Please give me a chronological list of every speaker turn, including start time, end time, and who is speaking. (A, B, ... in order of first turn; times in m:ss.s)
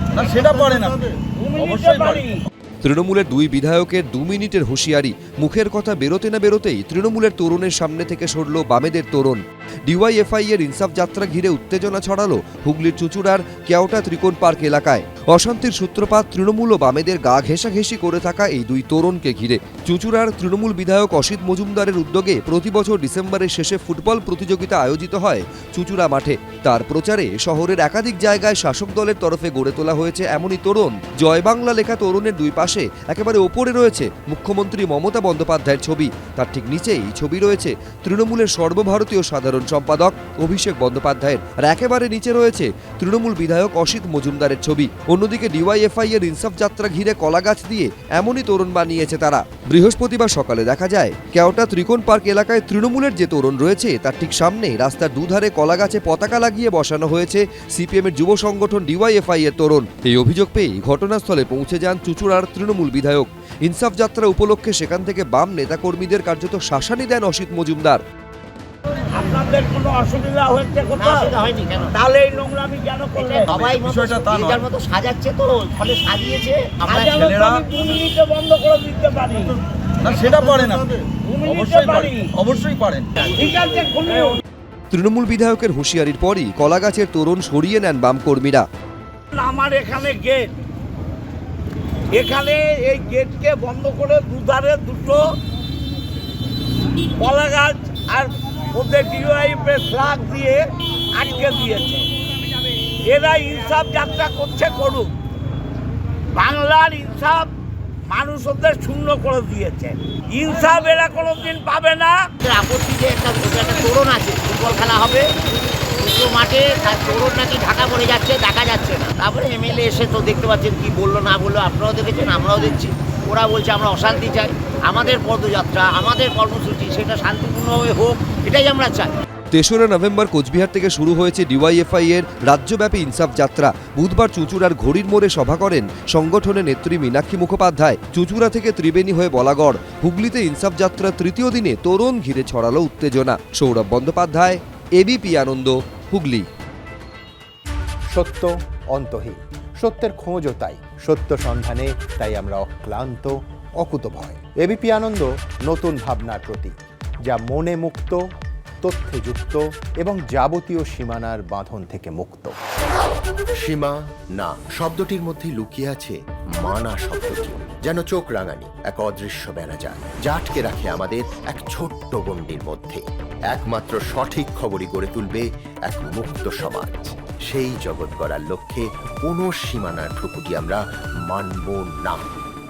0:00.1-0:02.3 A
0:01.3-0:02.4 B
0:02.8-1:08.0 C
1:09.1-1:11.4 B
1:11.0-1:11.9 D
1:11.9-1:13.7 B
1:13.3-1:17.1 D
1:13.5-1:14.7 A
1:16.9-1:19.6 B
1:17.1-1:17.6 A
1:20.0-1:23.4 A
1:21.2-1:22.3 B
1:23.3-1:24.4 B
1:24.9-1:28.6 C
1:29.3-1:30.5 B
1:32.1-1:35.2 B
1:37.2-1:40.6 B
1:41.2-1:42.0 B
1:43.1-1:45.1 B
1:46.4-1:47.5 B
1:48.1-1:52.2 B
1:52.4-1:55.3 D
1:56.0-2:09.1 D
2:09.5-2:26.5 C
2:28.1-2:36.8 E
2:37.3-2:38.2 E
2:38.8-2:42.6 E
2:43.6-3:02.3 F